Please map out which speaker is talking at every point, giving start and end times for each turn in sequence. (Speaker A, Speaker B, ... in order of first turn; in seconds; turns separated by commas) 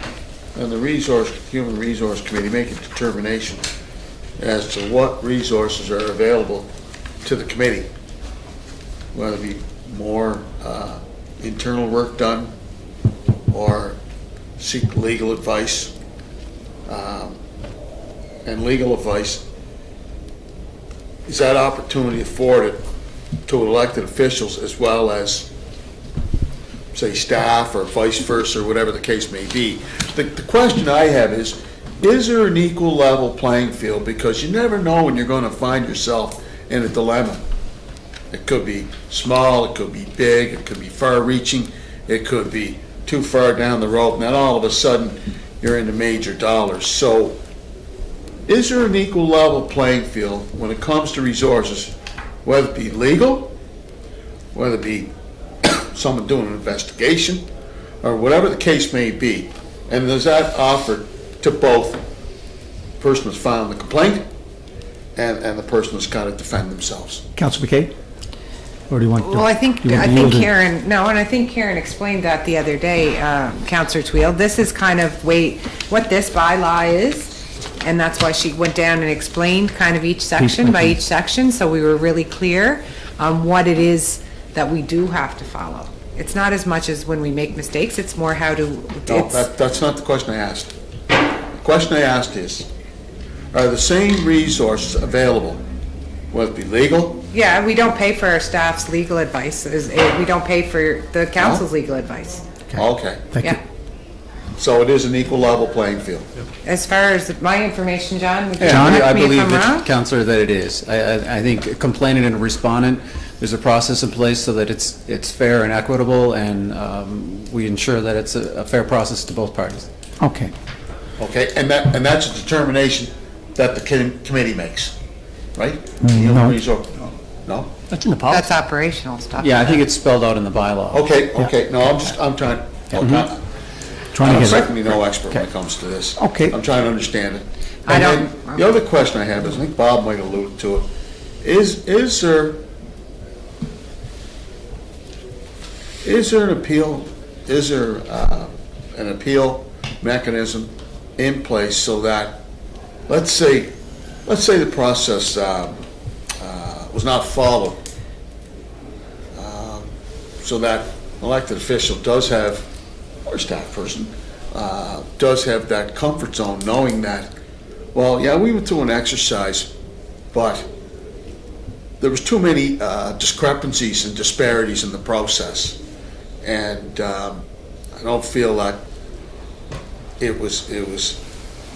Speaker A: 0.5-3.7, Speaker A: 4.4-6.7, Speaker A: 7.2-7.9, Speaker A: 9.1-12.5, Speaker A: 13.5-14.0, Speaker A: 14.6-15.9, Speaker A: 16.9-17.4, Speaker A: 18.4-19.4, Speaker A: 21.2-22.8, Speaker A: 23.5-25.5, Speaker A: 26.9-37.4, Speaker A: 38.3-47.4, Speaker A: 48.5-51.9, Speaker A: 52.4-53.5, Speaker A: 54.5-55.1, Speaker A: 55.6-57.4, Speaker A: 58.0-62.0, Speaker A: 63.0-64.2, Speaker A: 65.2-67.2, Speaker B: 67.4-67.9, Speaker B: 68.9-70.5, Speaker C: 69.2-89.5, Speaker B: 80.4-80.9, Speaker A: 89.1-90.7, Speaker A: 91.6-92.7, Speaker A: 93.5-95.6, Speaker A: 96.3-97.3, Speaker C: 97.3-102.5, Speaker A: 101.4-101.6, Speaker B: 102.7-103.6, Speaker A: 102.7-103.3, Speaker A: 104.6-106.3, Speaker C: 106.7-109.9, Speaker D: 108.6-119.9, Speaker B: 108.7-109.1, Speaker B: 120.2-120.5, Speaker A: 121.2-124.9, Speaker A: 125.6-127.7, Speaker B: 126.0-126.6, Speaker C: 128.3-129.8, Speaker D: 129.4-131.1, Speaker A: 130.9-133.4, Speaker B: 134.1-134.8, Speaker A: 134.2-140.8, Speaker B: 136.2-136.6, Speaker C: 137.9-138.6, Speaker A: 141.4-142.6, Speaker A: 146.0-152.4, Speaker A: 153.1-153.7, Speaker A: 154.2-155.8, Speaker A: 156.4-157.8, Speaker A: 159.3-159.9, Speaker A: 160.4-162.7, Speaker A: 163.2-167.3, Speaker A: 167.9-169.7, Speaker A: 170.3-170.7, Speaker A: 172.0-175.8, Speaker A: 176.4-178.8, Speaker A: 180.2-181.2